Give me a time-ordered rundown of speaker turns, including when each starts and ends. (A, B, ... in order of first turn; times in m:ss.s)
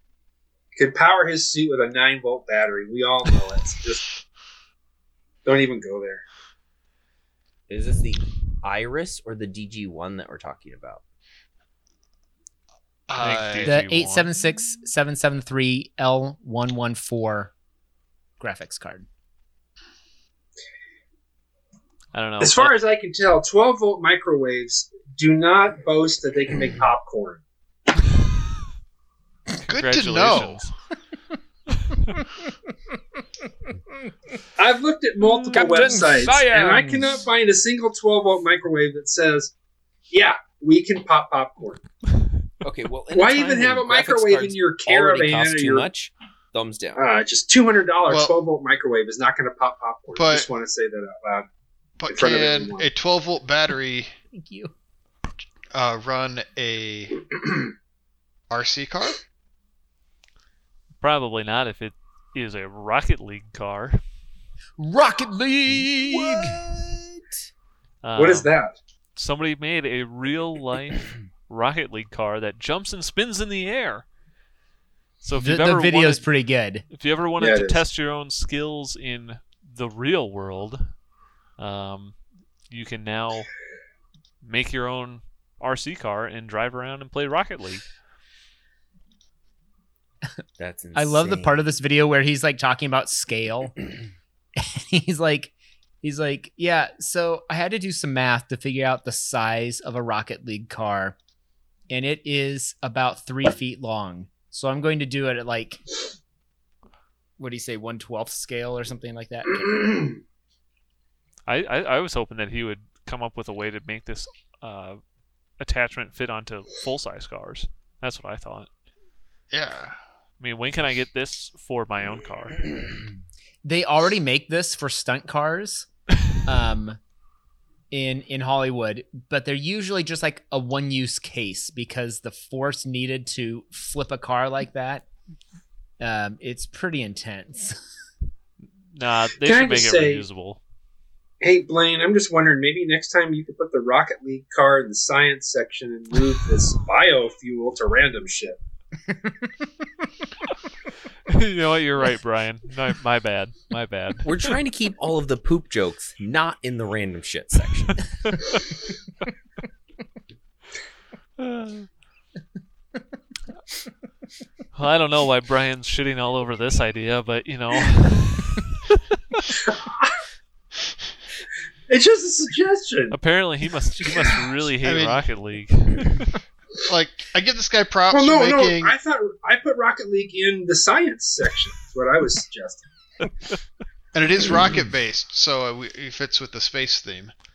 0:00.8-0:04.1 A
0:05.4-0:06.2 A
0:07.7-0:11.0 B
0:13.1-0:13.8 C
0:13.2-0:14.3 D
0:13.6-0:17.5 E
0:18.4-0:19.0 E
0:22.1-0:22.8 D
0:22.4-0:27.4 A
0:29.6-0:30.7 D
0:29.7-0:30.6 C
0:34.6-0:39.5 A
0:35.5-0:37.2 E
0:40.1-0:41.8 A
0:42.6-0:47.0 B
0:43.1-0:45.9 A
0:47.0-0:51.5 A
0:48.0-0:48.4 C
0:50.1-0:50.5 C
0:52.0-0:54.1 C
0:52.1-0:52.9 A
0:54.3-0:54.7 E
0:55.7-0:57.2 C
0:58.5-0:59.2 C
1:01.0-1:04.0 D
1:04.8-1:06.6 E
1:05.7-1:07.3 B
1:08.0-1:08.5 D
1:08.2-1:08.8 A
1:09.2-1:14.0 D
1:15.2-1:16.2 D
1:15.4-1:16.8 E
1:16.9-1:20.9 D
1:17.4-1:17.8 A
1:21.6-1:22.2 D
1:22.7-1:23.5 D
1:24.4-1:27.8 D
1:30.6-1:31.6 B
1:30.9-1:33.8 E
1:34.6-1:41.2 E
1:41.9-1:45.8 E
1:47.4-1:50.1 E
1:51.5-1:55.0 D
1:55.6-1:58.7 D
1:59.5-1:59.9 C
2:00.4-2:02.6 D
2:03.6-2:05.9 E
2:06.4-2:07.0 E
2:07.9-2:15.0 E
2:16.0-2:17.8 E
2:18.9-2:20.6 D
2:19.4-2:20.2 A
2:21.4-2:28.6 A
2:31.3-2:34.5 D
2:34.2-2:38.0 B
2:38.3-2:38.6 D
2:41.4-2:41.9 D
2:44.7-2:48.7 D
2:49.5-2:50.2 A
2:51.9-2:53.2 A
2:53.1-2:56.4 D
2:54.0-2:54.4 A
2:54.8-2:55.2 C
2:56.9-2:58.9 C
2:58.1-3:02.9 A
3:04.1-3:07.3 C